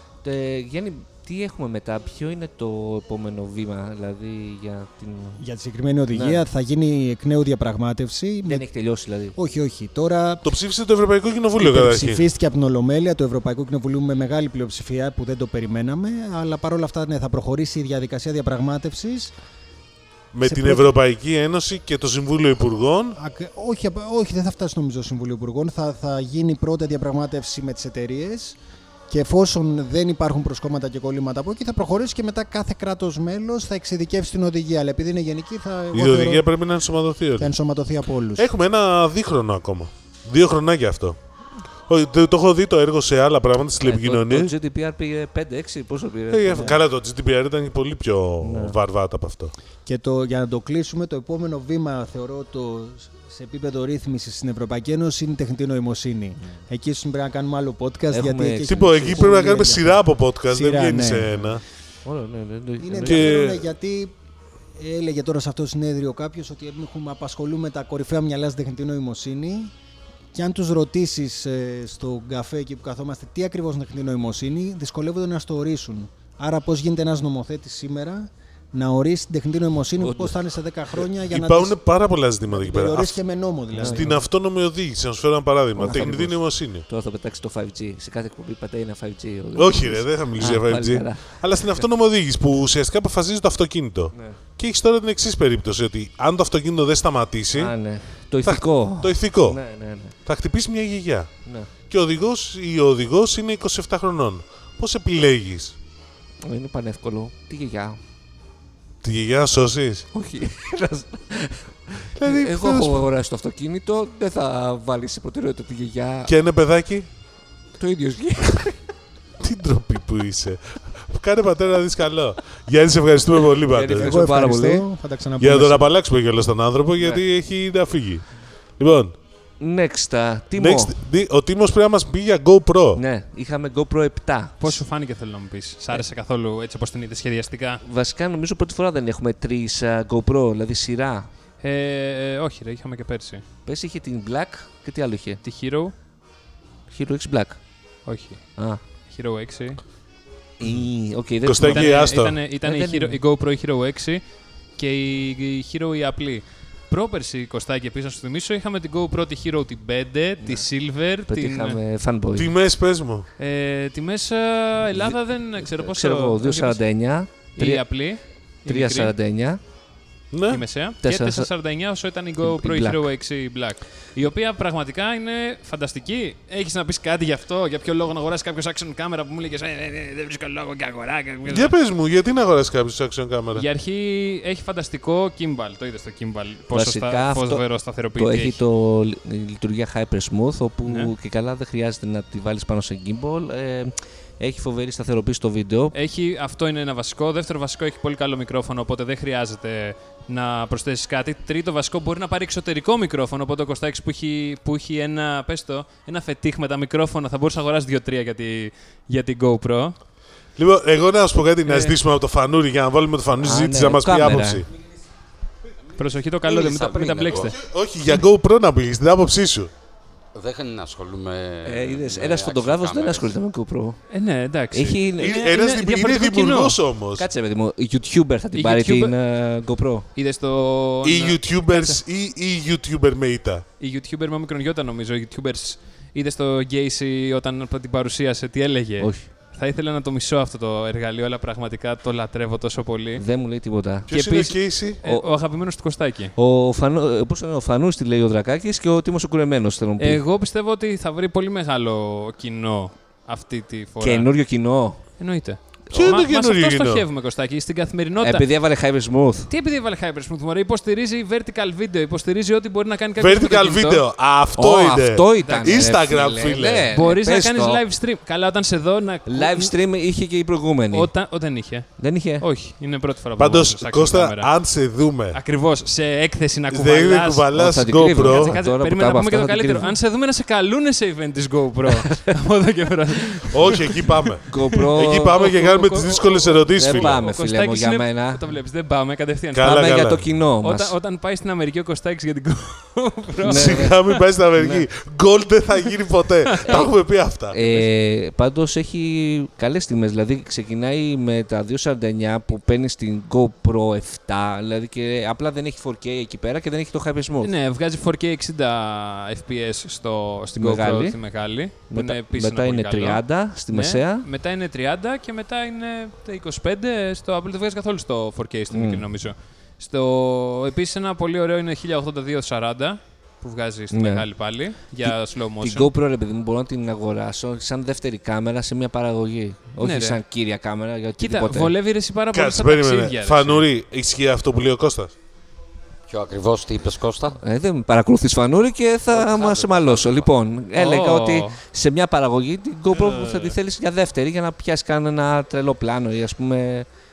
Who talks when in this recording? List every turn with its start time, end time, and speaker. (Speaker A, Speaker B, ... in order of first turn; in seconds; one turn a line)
Speaker A: 0.2-5.4
Speaker B: 5.4-8.7
Speaker A: 6.1-6.5
Speaker A: 8.4-9.4
Speaker B: 9.3-10.4
Speaker C: 10.4-12.2
Speaker B: 11.6-19.3
Speaker C: 20.3-23.2
Speaker B: 20.4-20.9
Speaker B: 23.1-28.6
Speaker B: 29.1-36.4
Speaker C: 35.9-37.5
Speaker B: 37.4-38.5
Speaker C: 38.4-41.2
Speaker C: 41.9-44.5
Speaker A: 43.8-46.8
Speaker C: 46.3-49.5
Speaker B: 46.5-46.8
Speaker A: 48.4-48.8
Speaker B: 49.9-61.4
Speaker A: 58.1-59.6
Speaker C: 58.7-61.6
Speaker A: 62.0-63.4
Speaker B: 62.8-64.2
Speaker C: 63.1-63.6
Speaker B: 64.8-69.7
Speaker B: 70.3-81.8
Speaker A: 80.0-80.4
Speaker C: 81.3-83.2
Speaker B: 82.5-84.2
Speaker A: 83.7-84.1
Speaker C: 83.8-86.8
Speaker A: 85.8-91.8
Speaker C: 89.5-97.7
Speaker A: 94.1-94.4
Speaker A: 97.5-100.2
Speaker C: 98.4-99.6
Speaker C: 100.2-101.3
Speaker A: 101.4-101.7
Speaker C: 101.9-105.7
Speaker A: 106.4-108.0
Speaker C: 109.0-110.1
Speaker A: 110.1-116.3
Speaker C: 112.2-113.0
Speaker C: 116.3-117.1
Speaker A: 117.8-118.8
Speaker C: 119.4-124.2
Speaker A: 123.7-124.9
Speaker B: 124.0-125.9
Speaker C: 125.4-129.2
Speaker A: 129.6-130.9
Speaker C: 130.6-133.0
Speaker A: 132.9-134.8
Speaker D: 134.6-137.8
Speaker A: 137.8-141.3
Speaker D: 141.6-143.4
Speaker A: 143.7-145.4
Speaker D: 145.4-145.9
Speaker A: 146.9-147.6
Speaker D: 148.1-148.4
Speaker D: 149.1-149.8
Speaker A: 150.6-153.2
Speaker C: 151.4-152.4
Speaker D: 151.6-154.2
Speaker D: 154.8-161.8
Speaker A: 160.4-160.7
Speaker A: 161.3-162.5
Speaker C: 162.3-163.3
Speaker D: 163.4-166.8
Speaker A: 164.9-167.8
Speaker D: 167.5-169.1
Speaker A: 168.7-169.6
Speaker C: 170.3-170.6
Speaker D: 170.5-181.7
Speaker A: 171.0-171.5
Speaker A: 172.4-173.1
Speaker C: 181.5-183.6
Speaker D: 183.5-188.6
Speaker A: 186.7-187.6
Speaker A: 188.2-195.9
Speaker D: 190.8-191.1
Speaker D: 195.9-209.9
Speaker C: 210.6-214.7
Speaker D: 211.6-212.0
Speaker A: 213.4-214.6
Speaker D: 215.9-217.6
Speaker E: 216.4-217.5
Speaker C: 217.5-219.7
Speaker E: 220.3-223.3
Speaker A: 221.6-224.0
Speaker D: 224.1-226.8
Speaker A: 224.7-225.4
Speaker C: 225.2-227.2
Speaker A: 227.2-230.1
Speaker D: 228.5-229.1
Speaker D: 230.1-232.0
Speaker C: 231.0-233.6
Speaker D: 233.8-243.2
Speaker A: 239.0-239.3
Speaker A: 243.2-244.1
Speaker C: 244.1-245.0
Speaker D: 244.1-246.3
Speaker A: 246.3-250.2
Speaker D: 250.0-254.3
Speaker A: 254.0-255.0
Speaker D: 255.2-258.4
Speaker C: 255.9-257.0
Speaker A: 258.2-259.5
Speaker D: 259.5-264.0
Speaker C: 263.2-266.9
Speaker A: 264.6-267.8
Speaker D: 265.4-265.9
Speaker D: 266.9-269.7
Speaker A: 269.2-271.1
Speaker D: 270.9-274.5
Speaker A: 272.0-272.4
Speaker C: 273.4-275.4
Speaker D: 275.3-277.5
Speaker C: 276.7-278.5
Speaker A: 277.5-279.9
Speaker D: 278.2-289.9
Speaker A: 282.0-282.3
Speaker A: 283.4-283.8
Speaker C: 283.5-287.2
Speaker A: 284.4-285.4
Speaker A: 286.7-288.4
Speaker C: 289.5-290.3
Speaker A: 289.6-290.9
Speaker D: 290.6-294.2
Speaker A: 293.4-294.0
Speaker C: 293.4-297.6
Speaker A: 294.6-294.9
Speaker D: 296.5-296.9
Speaker A: 296.6-296.9
Speaker A: 297.5-307.5
Speaker D: 307.4-325.9
Speaker A: 310.6-311.2
Speaker A: 311.9-314.3
Speaker A: 318.7-319.1
Speaker A: 323.9-324.3
Speaker A: 325.0-331.7
Speaker D: 329.8-330.2
Speaker D: 331.2-333.6
Speaker C: 332.3-335.1
Speaker E: 336.1-337.4
Speaker A: 337.4-346.9
Speaker E: 339.1-340.3
Speaker D: 340.7-341.6
Speaker D: 343.0-343.5